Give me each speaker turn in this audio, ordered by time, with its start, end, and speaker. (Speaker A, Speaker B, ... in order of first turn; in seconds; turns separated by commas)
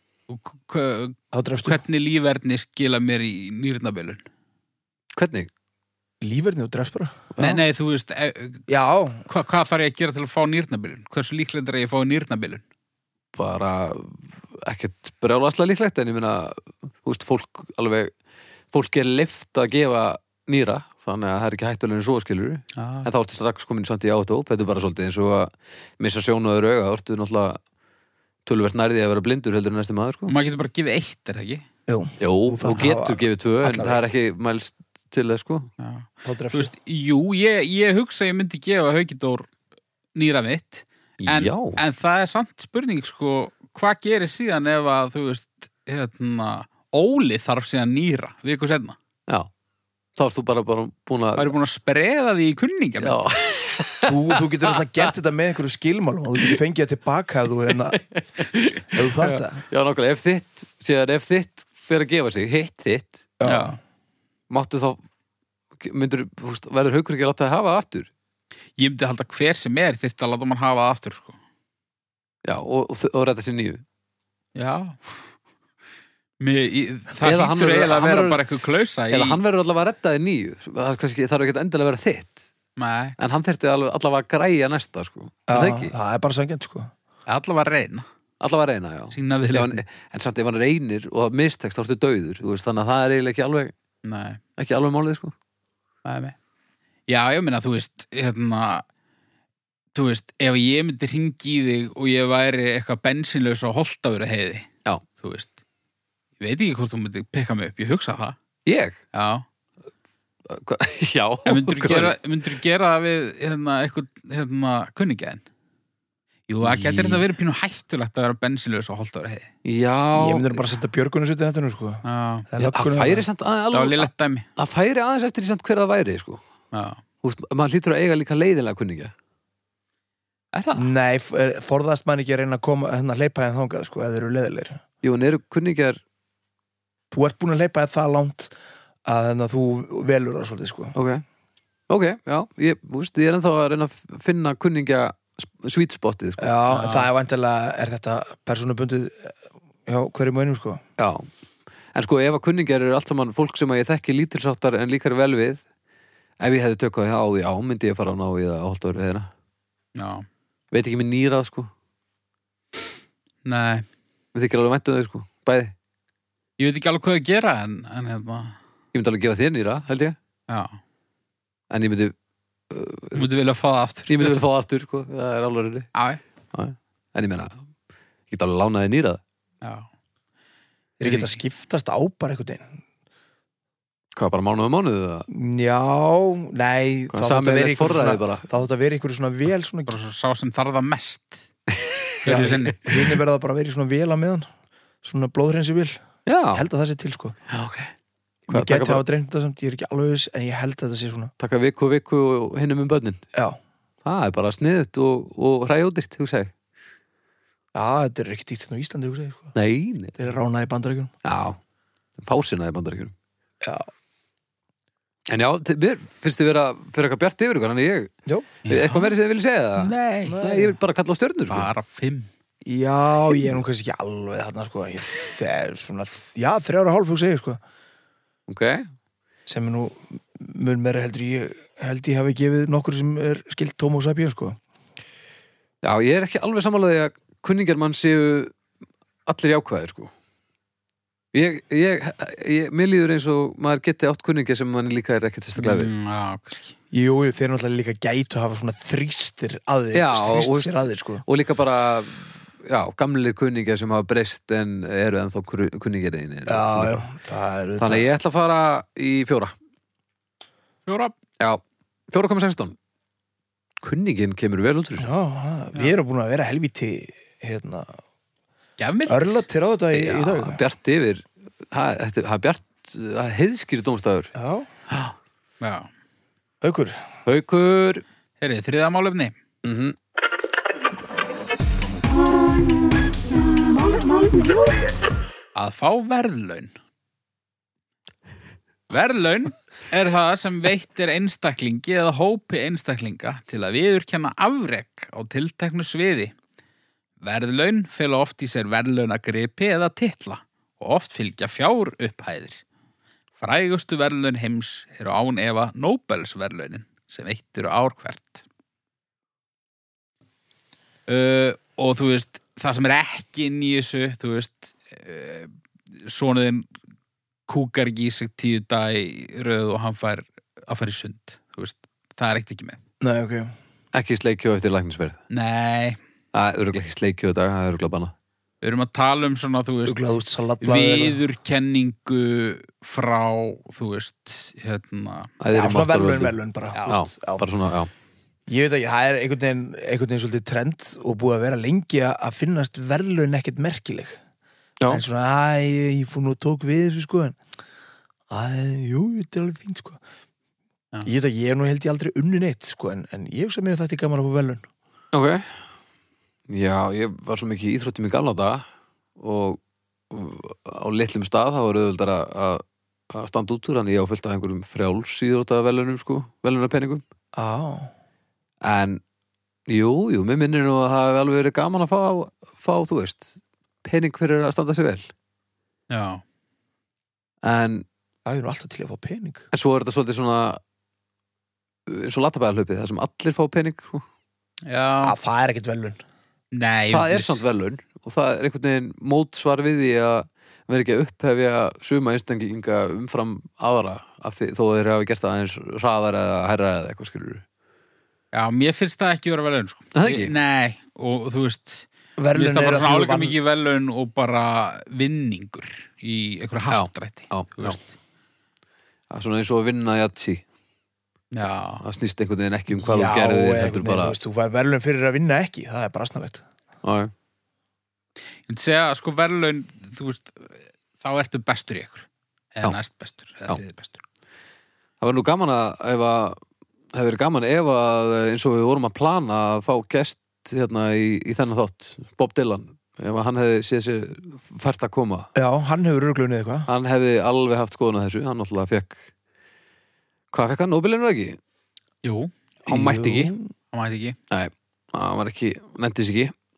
Speaker A: 0.3-4.2, Speaker B: 1.3-1.8, Speaker C: 5.1-5.5, Speaker B: 6.2-7.2, Speaker C: 7.3-7.6, Speaker A: 7.4-8.7, Speaker B: 8.7-9.2, Speaker A: 9.2-12.6, Speaker C: 13.3-18.1, Speaker C: 18.7-27.6, Speaker A: 22.7-23.1, Speaker C: 28.4-30.3, Speaker A: 30.3-31.6, Speaker B: 31.9-34.0, Speaker C: 32.2-35.7, Speaker A: 35.8-39.5, Speaker B: 36.2-36.7, Speaker A: 40.1-49.0, Speaker C: 41.2-41.8, Speaker C: 50.1-51.5, Speaker A: 51.4-53.2, Speaker C: 53.0-55.1, Speaker B: 54.0-58.0, Speaker C: 57.9-63.3, Speaker B: 58.9-59.6, Speaker B: 63.4-63.7, Speaker A: 63.4-63.8, Speaker C: 64.5-65.0, Speaker C: 65.8-68.1, Speaker A: 68.8-71.4, Speaker C: 72.4-73.8, Speaker A: 74.5-75.0, Speaker A: 76.4-79.4, Speaker C: 77.2-78.4, Speaker C: 79.1-82.4, Speaker A: 82.8-83.1, Speaker C: 83.2-85.9, Speaker B: 85.5-86.9, Speaker A: 87.3-88.0, Speaker C: 88.4-93.7, Speaker A: 89.1-89.8, Speaker A: 94.0-94.4, Speaker C: 94.6-95.3, Speaker A: 96.0-96.3, Speaker A: 97.1-98.8, Speaker A: 99.9-105.5, Speaker A: 106.4-108.3, Speaker C: 108.7-109.0, Speaker A: 109.1-109.4, Speaker C: 110.5-112.1, Speaker A: 111.5-115.4, Speaker A: 116.5-119.5, Speaker C: 116.6-117.2, Speaker C: 119.6-120.6, Speaker B: 120.1-123.2, Speaker A: 122.0-122.5, Speaker C: 122.6-126.4, Speaker A: 123.7-124.5, Speaker A: 126.7-127.0, Speaker C: 127.2-129.1, Speaker A: 130.5-130.9, Speaker B: 130.7-134.8, Speaker C: 135.0-136.0, Speaker B: 137.1-138.5, Speaker B: 139.1-140.9, Speaker C: 140.9-141.2, Speaker C: 141.9-146.5, Speaker B: 146.4-150.8, Speaker A: 146.7-147.1, Speaker C: 151.0-151.3, Speaker C: 151.9-155.6, Speaker C: 156.4-159.3, Speaker A: 159.9-160.2, Speaker C: 160.7-161.7, Speaker A: 163.4-163.8, Speaker C: 164.3-165.7, Speaker A: 166.6-168.6, Speaker C: 168.9-170.2, Speaker A: 170.5-170.8, Speaker C: 171.7-172.1, Speaker C: 172.7-173.3, Speaker A: 173.1-174.4, Speaker C: 174.1-175.9, Speaker A: 175.9-176.2, Speaker C: 176.5-177.6, Speaker C: 178.3-179.2, Speaker A: 179.6-179.9, Speaker B: 181.0-182.7, Speaker A: 181.0-181.4, Speaker C: 184.1-185.3, Speaker B: 185.3-189.9, Speaker C: 187.1-188.5, Speaker A: 189.9-191.4, Speaker A: 192.2-192.9, Speaker B: 192.2-194.5, Speaker B: 195.0-197.3, Speaker C: 196.2-196.6, Speaker C: 197.5-197.9, Speaker B: 198.5-201.3, Speaker C: 198.5-199.0, Speaker C: 201.4-203.2, Speaker B: 203.3-203.6, Speaker C: 204.0-206.5, Speaker B: 207.7-209.5, Speaker C: 209.5-210.2, Speaker B: 210.2-211.1, Speaker C: 211.2-211.6, Speaker C: 212.2-213.1, Speaker B: 213.6-213.9, Speaker C: 215.3-218.1, Speaker A: 218.6-219.1, Speaker C: 218.7-221.7, Speaker A: 219.8-220.4, Speaker B: 220.2-220.8, Speaker A: 221.5-222.3, Speaker B: 222.6-227.6, Speaker C: 228.5-228.9, Speaker B: 229.5-234.6, Speaker C: 235.8-238.5, Speaker C: 239.2-240.1, Speaker C: 241.3-245.9, Speaker A: 245.6-246.7, Speaker B: 246.9-251.2, Speaker C: 249.9-257.0, Speaker B: 256.5-258.1, Speaker C: 257.8-259.5, Speaker A: 260.9-261.1, Speaker C: 261.4-262.7, Speaker C: 263.8-265.1, Speaker B: 265.0-268.0, Speaker A: 268.8-269.4, Speaker B: 269.1-270.6, Speaker C: 269.9-274.3, Speaker B: 274.3-274.7, Speaker A: 275.6-275.9, Speaker B: 276.6-277.0, Speaker C: 277.2-278.0, Speaker A: 278.4-279.3, Speaker C: 279.6-279.9, Speaker A: 285.5-286.7, Speaker A: 288.9-296.3, Speaker A: 297.2-302.6, Speaker A: 303.4-308.4, Speaker A: 311.1-315.5, Speaker A: 316.1-316.7, Speaker A: 317.5-322.8, Speaker B: 323.0-323.5, Speaker C: 323.9-325.2, Speaker A: 325.3-326.0, Speaker C: 326.3-328.1, Speaker A: 328.6-335.3, Speaker B: 329.9-331.2, Speaker C: 335.4-336.3, Speaker B: 335.5-337.4, Speaker A: 336.7-337.0, Speaker C: 336.9-337.9, Speaker B: 338.5-344.2, Speaker B: 344.9-347.4, Speaker B: 348.3-350.0, Speaker B: 351.0-354.6, Speaker C: 355.1-355.6, Speaker C: 356.5-358.6, Speaker C: 359.2-367.0, Speaker B: 367.3-367.9, Speaker C: 368.6-369.0, Speaker C: 369.7-375.1, Speaker A: 375.9-376.2, Speaker C: 377.4-377.9, Speaker B: 378.2-379.4, Speaker C: 379.5-380.6, Speaker C: 381.9-384.0, Speaker A: 384.7-385.2, Speaker B: 385.0-386.0, Speaker A: 386.5-387.4, Speaker C: 386.9-397.4, Speaker A: 398.3-407.9, Speaker C: 399.9-400.3, Speaker B: 402.2-403.3, Speaker C: 406.7-407.8, Speaker C: 409.1-410.4, Speaker A: 411.3-411.8, Speaker C: 411.8-414.1, Speaker B: 412.7-416.4, Speaker C: 416.8-417.1, Speaker A: 418.5-424.0, Speaker C: 425.0-426.4, Speaker C: 426.9-435.3, Speaker B: 435.3-436.7, Speaker C: 436.7-439.0, Speaker C: 440.3-441.4, Speaker A: 442.0-442.3, Speaker C: 442.7-443.3, Speaker B: 442.7-443.5, Speaker A: 443.7-444.2, Speaker C: 444.3-446.3